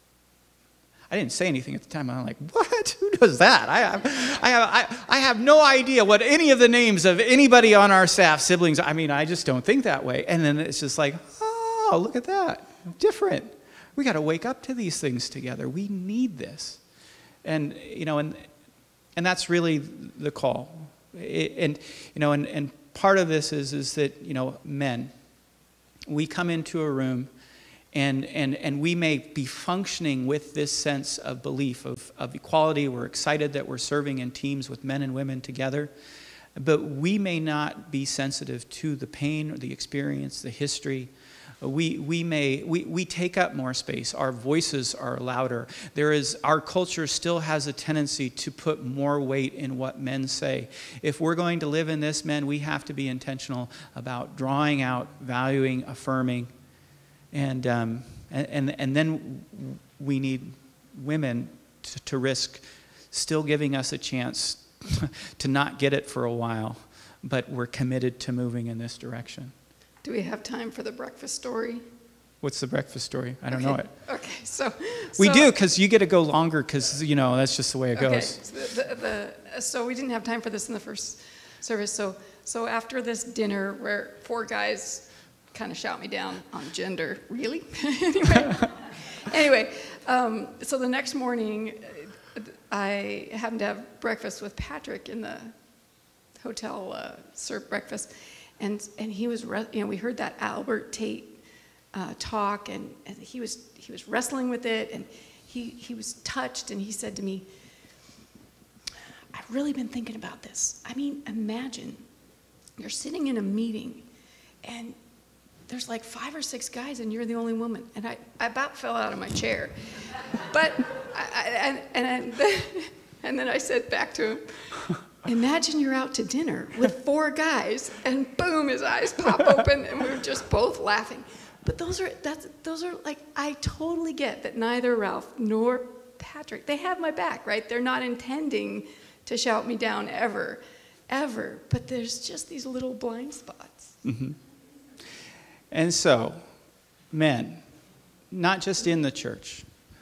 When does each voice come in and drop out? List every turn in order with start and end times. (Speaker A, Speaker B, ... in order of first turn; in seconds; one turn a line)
Speaker A: 1.1-16.8
Speaker A: 17.4-18.5
Speaker A: 19.1-25.1
Speaker A: 26.1-27.3
Speaker A: 27.9-35.9
Speaker A: 36.5-41.1
Speaker A: 41.6-56.5
Speaker A: 57.3-69.5
Speaker B: 70.0-71.8
Speaker A: 72.4-73.9
Speaker B: 73.5-75.5
Speaker A: 75.2-78.4
Speaker B: 78.0-95.5
Speaker B: 96.4-101.4
Speaker B: 101.9-107.5
Speaker B: 109.3-112.0
Speaker B: 112.8-114.0
Speaker B: 114.6-115.0
Speaker B: 115.7-143.9
Speaker A: 144.0-144.4
Speaker A: 145.7-146.5
Speaker A: 147.1-147.6
Speaker A: 148.3-149.7